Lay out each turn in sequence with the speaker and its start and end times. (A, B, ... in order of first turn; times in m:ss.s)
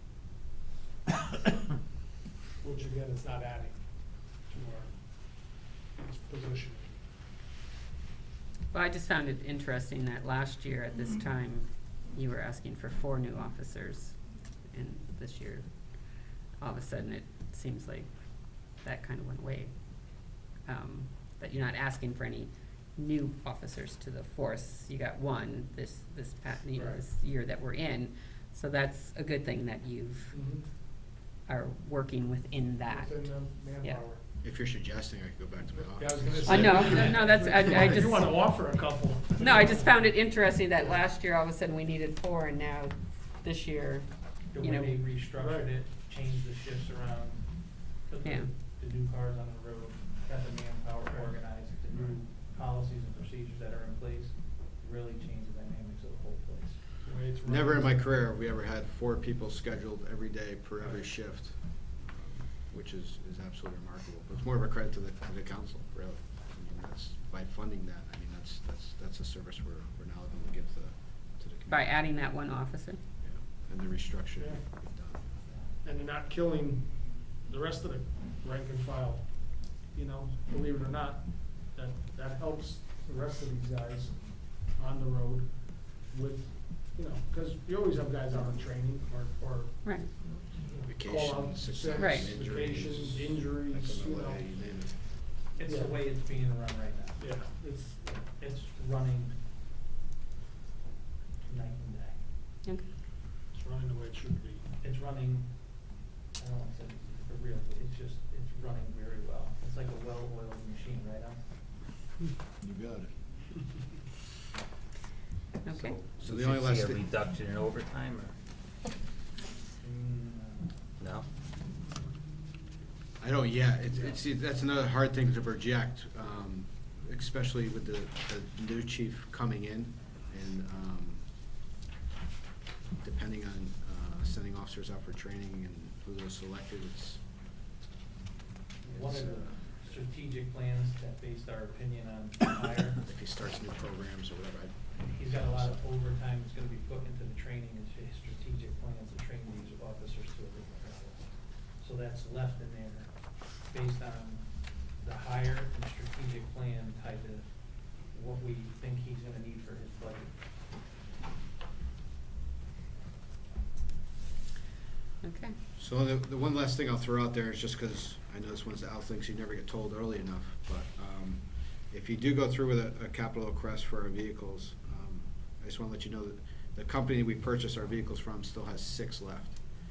0:02.6-0:07.0 A
0:08.7-0:14.2 B
0:14.7-0:30.4 B
0:26.7-0:27.0 A
0:30.3-0:30.6 A
0:31.5-0:33.3 B
0:32.8-0:34.2 A
0:34.4-0:37.7 C
0:36.0-0:39.9 A
0:36.4-0:38.3 B
0:39.4-0:45.0 B
0:44.5-0:57.1 D
0:45.4-0:45.7 A
0:57.0-0:58.0 A
0:57.4-1:12.2 C
1:11.7-1:13.0 B
1:13.2-1:15.3 C
1:14.4-1:14.6 A
1:15.8-1:34.5 A
1:30.8-1:35.1 C
1:32.0-1:32.3 B
1:35.6-1:39.4 D
1:35.6-1:36.0 A
1:37.2-1:38.1 A
1:41.4-1:42.3 D
1:43.5-1:44.7 A
1:44.8-1:51.4 D
1:52.7-1:53.1 C
1:55.6-1:56.0 B
1:55.8-1:58.4 E
1:56.2-1:57.0 C
1:59.8-2:00.9 D
2:01.0-2:01.3 E
2:03.2-2:11.2 C
2:13.0-2:17.3 C
2:18.8-2:23.0 D
2:18.9-2:20.0 C
2:23.0-2:25.8 C
2:25.0-2:40.3 D
2:45.2-2:45.6 B
2:45.8-2:59.6 C